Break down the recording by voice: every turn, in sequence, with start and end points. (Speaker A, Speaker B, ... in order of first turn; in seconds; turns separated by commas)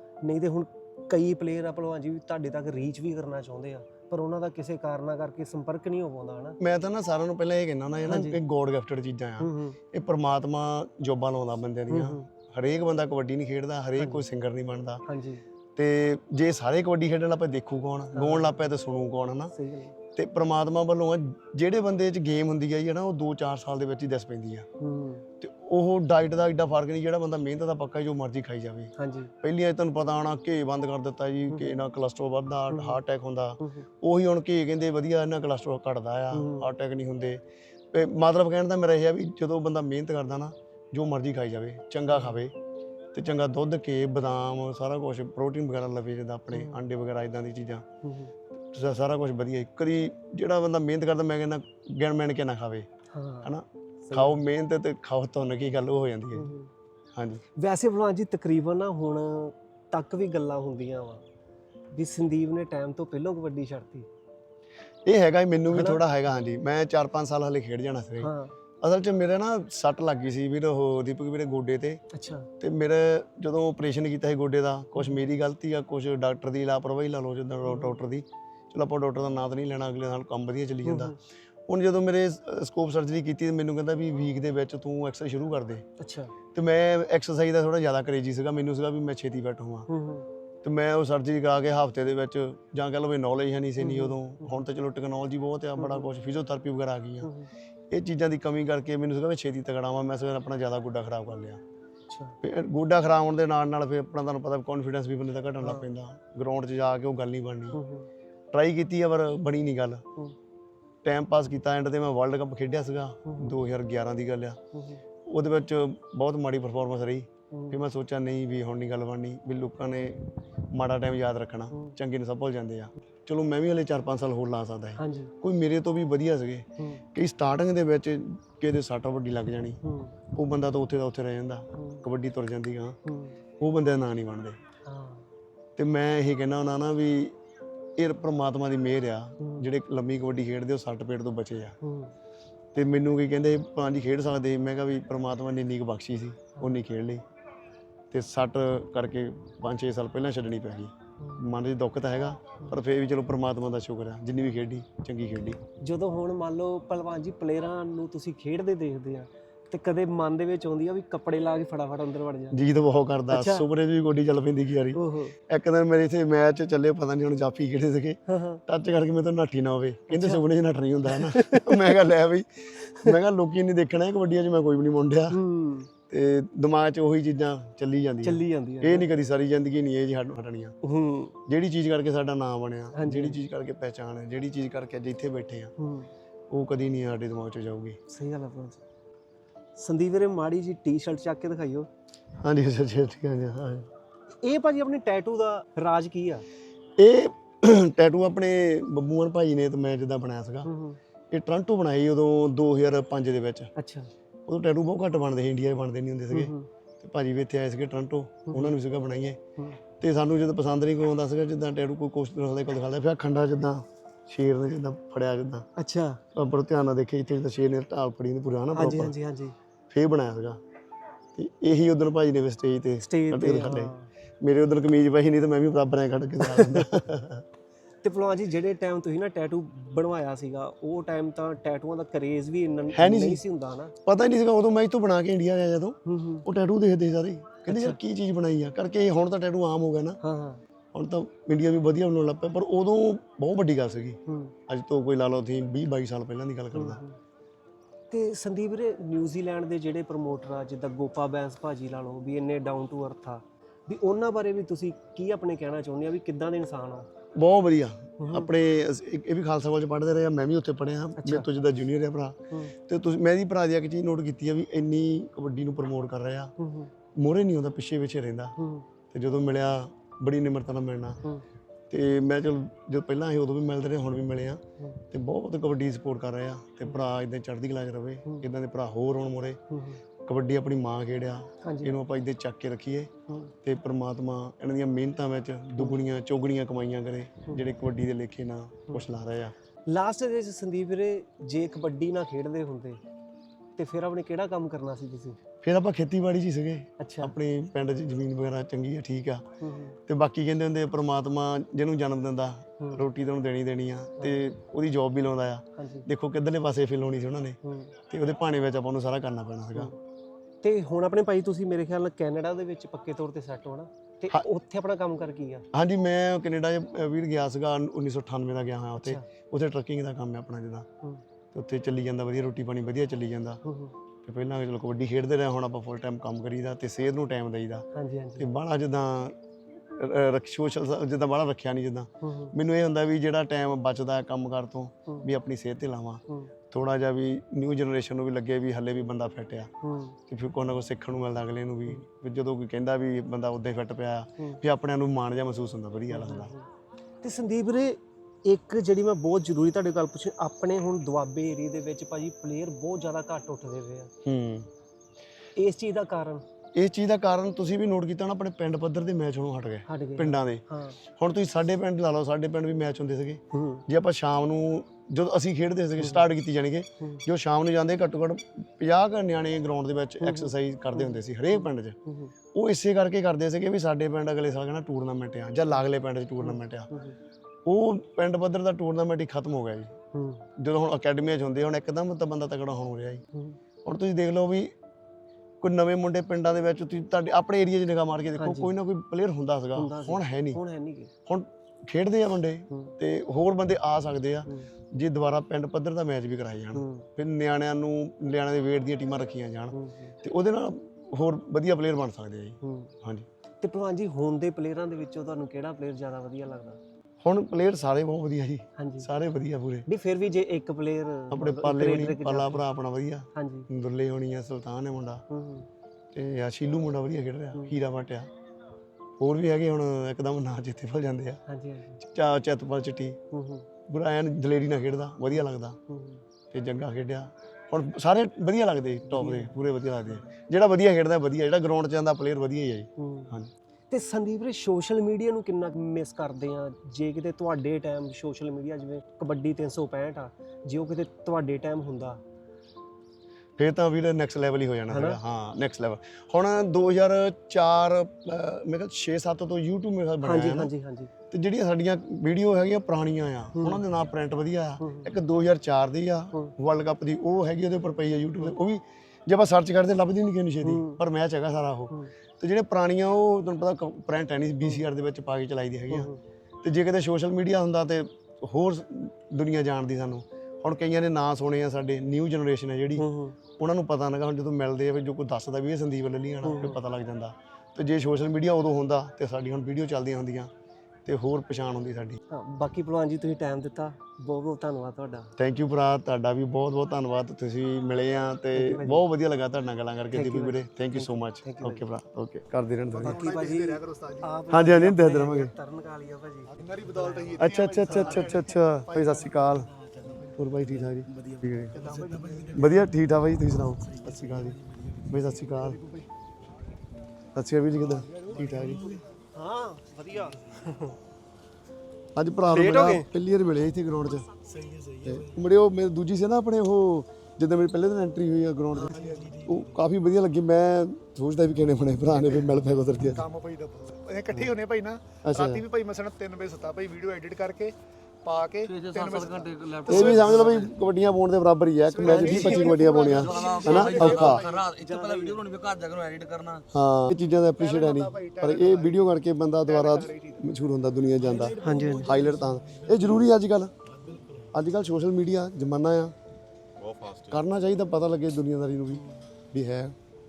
Speaker A: 0.2-6.6, Speaker B: 6.6-15.0, Speaker A: 8.1-8.4, Speaker A: 9.4-9.8, Speaker A: 11.9-12.2, Speaker A: 14.0-14.2, Speaker A: 15.1-15.4, Speaker B: 15.8-19.5, Speaker A: 18.1-18.7, Speaker A: 19.5-19.9, Speaker B: 20.1-24.6, Speaker A: 24.8-25.2, Speaker B: 25.4-37.4, Speaker A: 29.0-29.3, Speaker A: 32.7-33.0, Speaker A: 33.6-33.9, Speaker A: 36.3-36.7, Speaker B: 37.9-42.5, Speaker A: 42.1-42.4, Speaker B: 43.1-47.8, Speaker A: 46.5-46.8, Speaker A: 48.0-48.3, Speaker B: 48.7-52.9, Speaker A: 53.1-53.5, Speaker B: 53.4-56.5, Speaker A: 54.0-54.4, Speaker A: 56.4-56.7, Speaker B: 57.1-57.4, Speaker A: 57.5-61.2, Speaker A: 61.9-64.1, Speaker B: 65.0-68.3, Speaker A: 65.7-66.0, Speaker A: 68.2-68.5, Speaker B: 68.8-72.0, Speaker A: 72.1-72.5, Speaker B: 72.6-81.1, Speaker A: 75.0-75.2, Speaker A: 77.6-78.0, Speaker A: 80.8-81.2, Speaker B: 81.7-85.8, Speaker A: 86.0-86.3, Speaker B: 86.5-89.9, Speaker A: 89.9-90.3, Speaker B: 90.6-97.3, Speaker A: 93.8-94.6, Speaker A: 95.8-96.1, Speaker A: 97.2-97.5, Speaker B: 97.9-101.6, Speaker A: 102.1-102.3, Speaker B: 102.4-107.8, Speaker A: 105.6-105.8, Speaker A: 107.7-108.1, Speaker B: 108.5-110.0, Speaker B: 111.0-114.6, Speaker A: 113.2-113.6, Speaker A: 114.7-115.0, Speaker B: 115.2-129.8, Speaker A: 117.5-117.8, Speaker A: 125.0-125.3, Speaker A: 126.8-127.0, Speaker A: 129.8-130.1, Speaker B: 130.3-133.0, Speaker A: 131.7-132.0, Speaker A: 133.0-133.3, Speaker B: 133.6-134.6, Speaker A: 134.8-135.3, Speaker B: 135.8-137.3, Speaker B: 138.0-141.8, Speaker A: 139.4-139.7, Speaker A: 141.8-142.1, Speaker B: 142.7-147.2, Speaker B: 148.1-155.6, Speaker A: 151.2-151.4, Speaker A: 155.8-162.6, Speaker B: 162.5-175.4, Speaker A: 163.3-163.7, Speaker A: 164.9-165.3, Speaker A: 168.3-168.6, Speaker A: 170.1-170.4, Speaker A: 171.1-171.9, Speaker A: 175.3-175.9, Speaker B: 176.1-180.7, Speaker A: 178.2-179.1, Speaker A: 180.8-181.3, Speaker B: 181.5-185.7, Speaker A: 182.9-183.4, Speaker A: 185.8-186.1, Speaker B: 186.5-188.0, Speaker A: 188.1-188.8, Speaker A: 189.8-191.9, Speaker B: 192.4-193.9, Speaker A: 194.4-196.4, Speaker B: 197.0-200.7, Speaker A: 200.7-201.0, Speaker B: 201.3-203.7, Speaker A: 203.8-204.1, Speaker B: 204.5-209.4, Speaker A: 206.3-206.7, Speaker A: 208.5-208.8, Speaker B: 210.0-215.7, Speaker A: 215.8-216.2, Speaker B: 216.3-219.1, Speaker A: 218.7-219.5, Speaker B: 219.9-220.6, Speaker B: 221.3-227.4, Speaker A: 223.0-224.1, Speaker A: 226.4-226.9, Speaker A: 228.0-233.9, Speaker B: 232.9-233.4, Speaker B: 234.0-240.2, Speaker A: 236.1-236.4, Speaker A: 237.7-237.9, Speaker A: 240.2-240.6, Speaker B: 240.9-247.0, Speaker A: 244.3-244.5, Speaker A: 246.7-247.2, Speaker A: 248.1-257.1, Speaker B: 257.3-266.5, Speaker A: 258.2-258.5, Speaker A: 261.2-261.5, Speaker A: 266.6-266.9, Speaker B: 267.1-268.5, Speaker A: 268.6-268.9, Speaker B: 269.1-271.2, Speaker B: 271.9-279.6, Speaker A: 279.7-280.0, Speaker B: 280.2-283.1, Speaker A: 281.6-281.9, Speaker B: 283.6-289.5, Speaker A: 289.9-293.0, Speaker A: 293.8-295.4, Speaker B: 295.6-299.4, Speaker A: 297.0-297.3, Speaker A: 299.6-300.0, Speaker B: 300.1-307.6, Speaker A: 302.8-303.0, Speaker A: 305.8-306.1, Speaker A: 307.6-307.9, Speaker B: 308.1-309.9, Speaker A: 310.6-315.6, Speaker B: 315.7-320.9, Speaker B: 321.5-323.6, Speaker A: 323.6-323.9, Speaker B: 324.2-327.9, Speaker A: 327.9-328.5, Speaker B: 328.4-339.7, Speaker A: 332.2-332.5, Speaker A: 339.8-340.2, Speaker B: 340.3-346.5, Speaker A: 346.1-346.6, Speaker A: 347.2-354.1, Speaker B: 354.2-354.7, Speaker A: 355.6-356.4, Speaker B: 356.7-371.9, Speaker A: 359.9-361.0, Speaker A: 363.5-363.8, Speaker A: 366.0-366.3, Speaker A: 370.2-372.3, Speaker B: 372.5-376.9, Speaker A: 376.4-377.1, Speaker B: 377.6-379.9, Speaker A: 380.1-380.4, Speaker B: 380.6-383.2, Speaker B: 383.8-384.7, Speaker B: 385.6-390.6, Speaker A: 388.4-388.7, Speaker A: 389.8-391.1, Speaker B: 391.2-403.2, Speaker A: 396.7-397.1, Speaker A: 399.7-400.1, Speaker A: 402.6-402.9, Speaker A: 403.6-406.8, Speaker B: 407.2-409.9, Speaker A: 408.8-409.1, Speaker A: 409.9-412.6, Speaker B: 411.3-415.2, Speaker A: 413.3-413.7, Speaker A: 415.3-415.7, Speaker B: 416.1-418.3, Speaker B: 419.2-421.4, Speaker A: 421.5-422.0, Speaker B: 422.0-423.2, Speaker A: 423.3-423.6, Speaker B: 423.9-425.8, Speaker A: 425.9-426.2, Speaker B: 426.5-433.5, Speaker A: 429.1-430.3, Speaker A: 433.0-433.3, Speaker A: 433.9-442.2, Speaker B: 443.6-450.7, Speaker A: 444.9-445.2, Speaker A: 450.2-451.1, Speaker B: 451.3-466.1, Speaker A: 453.6-453.8, Speaker A: 454.8-455.1, Speaker A: 460.6-461.0, Speaker A: 465.9-466.2, Speaker B: 466.6-473.1, Speaker A: 473.0-473.4, Speaker B: 473.6-480.5, Speaker A: 476.4-476.8, Speaker B: 481.1-482.2, Speaker A: 482.3-485.3, Speaker B: 485.4-493.2, Speaker A: 488.5-489.0, Speaker A: 490.1-491.9, Speaker C: 492.9-494.4, Speaker A: 493.0-498.2, Speaker B: 494.5-495.5, Speaker C: 496.5-499.6, Speaker B: 497.4-499.8, Speaker B: 500.4-501.8, Speaker C: 501.7-502.9, Speaker B: 502.5-505.8, Speaker C: 505.4-506.1, Speaker B: 507.3-508.9, Speaker C: 507.8-509.0, Speaker A: 509.3-510.9, Speaker B: 512.1-514.3, Speaker A: 512.5-513.1, Speaker B: 515.0-523.2, Speaker C: 518.8-519.6, Speaker C: 523.1-530.6, Speaker B: 525.2-525.6, Speaker D: 528.6-530.8, Speaker B: 529.9-534.4, Speaker C: 531.9-534.6, Speaker A: 532.0-532.4, Speaker D: 532.2-536.7, Speaker A: 533.7-535.4, Speaker B: 536.7-543.7, Speaker C: 537.6-539.1, Speaker C: 539.6-540.5, Speaker C: 541.2-542.8, Speaker A: 541.6-542.1, Speaker B: 544.4-546.1, Speaker B: 547.2-550.0